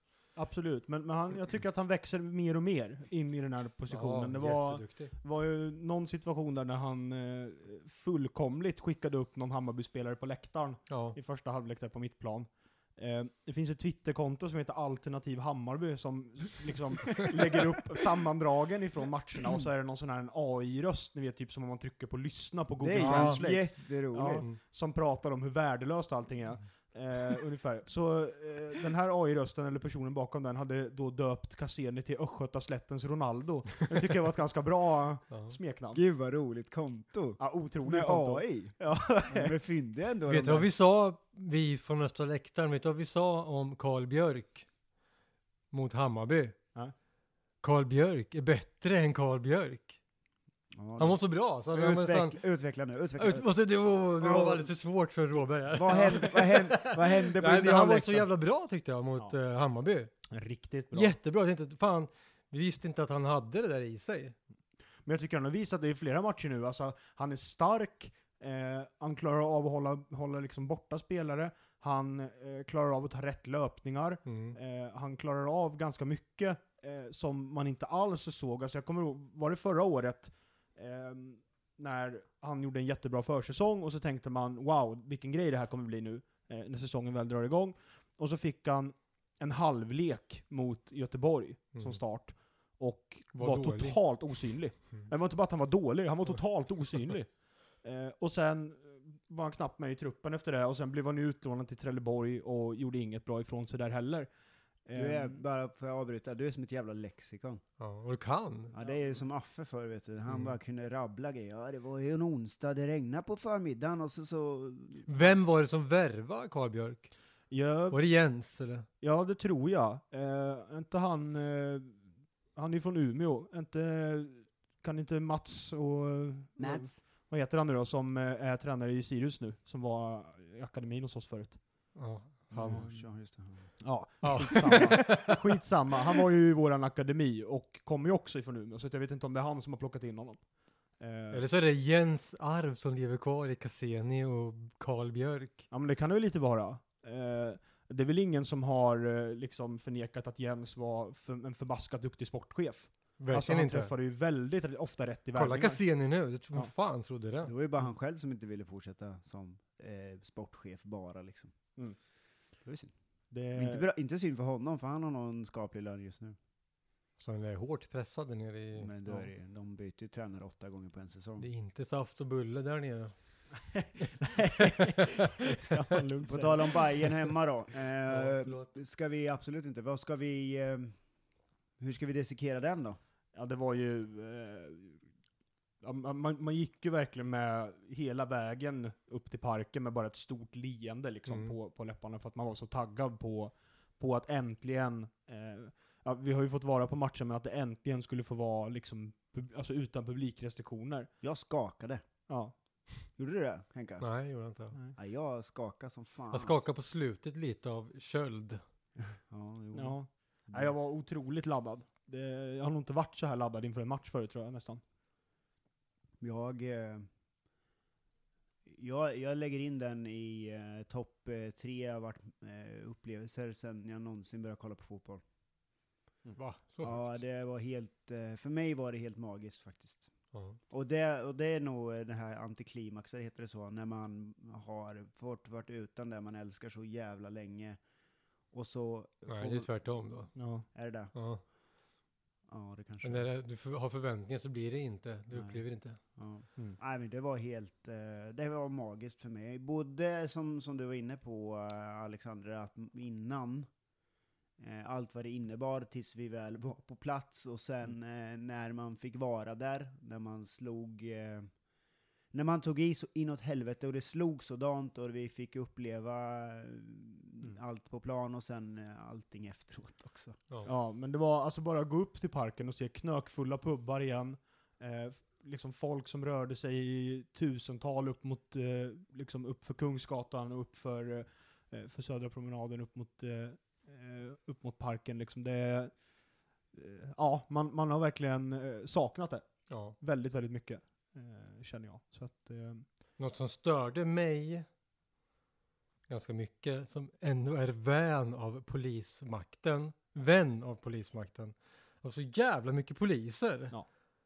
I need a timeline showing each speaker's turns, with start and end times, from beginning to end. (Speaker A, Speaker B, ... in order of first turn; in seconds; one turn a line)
Speaker A: 0.3-36.0
Speaker B: 3.9-5.1
Speaker B: 10.9-11.2
Speaker C: 17.3-17.8
Speaker C: 22.8-24.4
Speaker B: 22.9-23.4
Speaker B: 24.3-24.6
Speaker B: 35.3-35.5
Speaker C: 35.9-40.7
Speaker A: 37.4-39.5
Speaker B: 40.3-44.7
Speaker B: 45.7-46.6
Speaker B: 47.6-50.0
Speaker C: 50.7-53.5
Speaker B: 51.0-52.4
Speaker B: 53.2-60.1
Speaker C: 54.2-54.7
Speaker C: 55.7-58.3
Speaker A: 60.3-61.1
Speaker B: 60.9-64.3
Speaker A: 65.0-104.3
Speaker B: 74.2-74.5
Speaker B: 91.7-92.0
Speaker B: 93.3-94.0
Speaker A: 104.8-105.4
Speaker C: 104.9-107.6
Speaker B: 107.8-108.7
Speaker C: 108.7-115.3
Speaker B: 115.1-117.1
Speaker A: 117.5-118.0
Speaker B: 117.9-118.8
Speaker A: 119.0-122.0
Speaker A: 122.5-131.6
Speaker C: 126.6-127.0
Speaker B: 131.9-132.8
Speaker C: 132.5-133.7
Speaker A: 132.5-132.9
Speaker A: 133.8-141.4
Speaker B: 134.2-135.4
Speaker B: 141.3-145.7
Speaker A: 145.7-155.8
Speaker B: 153.2-153.9
Speaker B: 155.3-157.5
Speaker C: 157.4-161.5
Speaker C: 162.6-162.9
Speaker A: 163.3-163.9
Speaker C: 163.5-166.3
Speaker B: 167.2-168.9
Speaker C: 168.8-171.5
Speaker B: 171.4-173.1
Speaker A: 173.7-176.8
Speaker B: 174.6-175.6
Speaker C: 176.3-180.9
Speaker B: 178.1-178.7
Speaker C: 181.8-183.0
Speaker A: 183.3-185.0
Speaker A: 185.8-201.1
Speaker B: 191.3-191.5
Speaker C: 201.2-202.0
Speaker A: 202.3-202.5
Speaker C: 203.2-204.0
Speaker B: 204.0-204.8
Speaker C: 204.9-206.6
Speaker B: 206.3-208.6
Speaker C: 209.0-210.0
Speaker A: 209.7-214.8
Speaker C: 210.5-210.7
Speaker C: 216.2-217.1
Speaker C: 218.7-225.2
Speaker B: 226.3-227.2
Speaker C: 226.8-230.1
Speaker B: 230.3-230.6
Speaker C: 230.7-237.8
Speaker C: 238.5-239.7
Speaker B: 239.3-240.3
Speaker A: 240.3-240.7
Speaker C: 240.7-241.1
Speaker B: 241.1-241.4
Speaker C: 242.5-243.3
Speaker B: 243.0-246.0
Speaker C: 245.3-245.6
Speaker C: 246.1-253.7
Speaker C: 254.6-261.5
Speaker C: 262.3-270.4
Speaker A: 270.6-286.1
Speaker A: 286.7-292.9
Speaker B: 289.7-289.9
Speaker B: 293.2-294.7
Speaker B: 296.1-303.8